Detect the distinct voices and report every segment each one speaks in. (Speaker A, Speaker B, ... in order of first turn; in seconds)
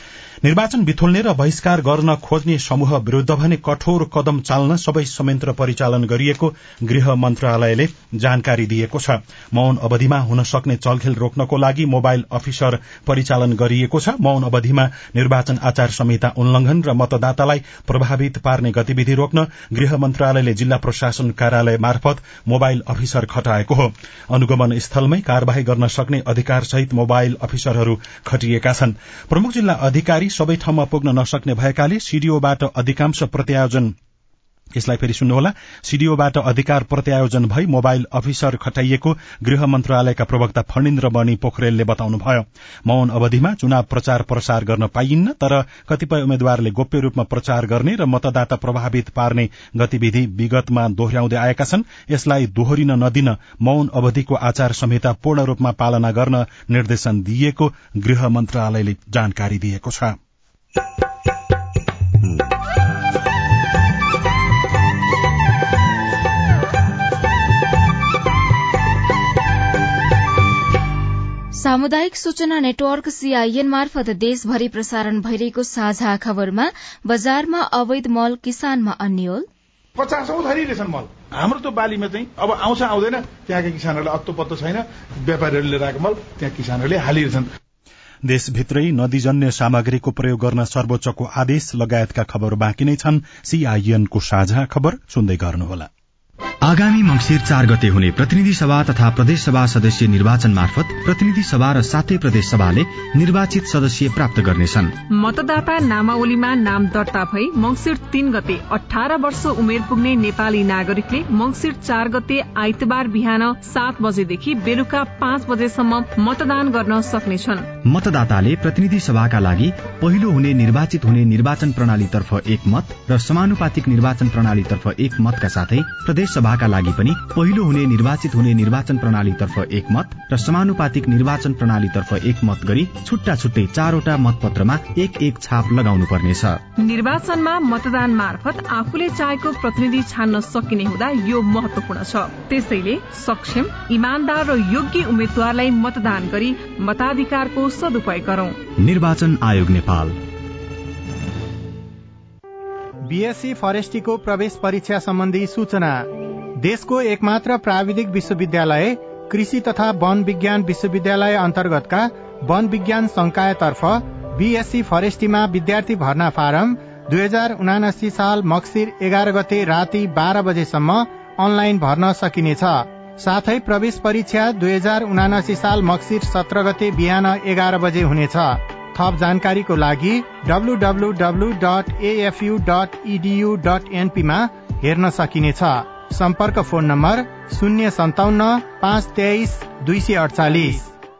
Speaker A: 0.4-33.9, 34.8-60.1, 88.2-95.9
Speaker B: 71.5-79.5
Speaker C: 80.0-87.5
Speaker D: 96.6-104.9, 117.8-136.6, 148.8-150.2
Speaker E: 105.1-117.7, 136.8-148.6
Speaker F: 153.0-156.1, 156.6-190.9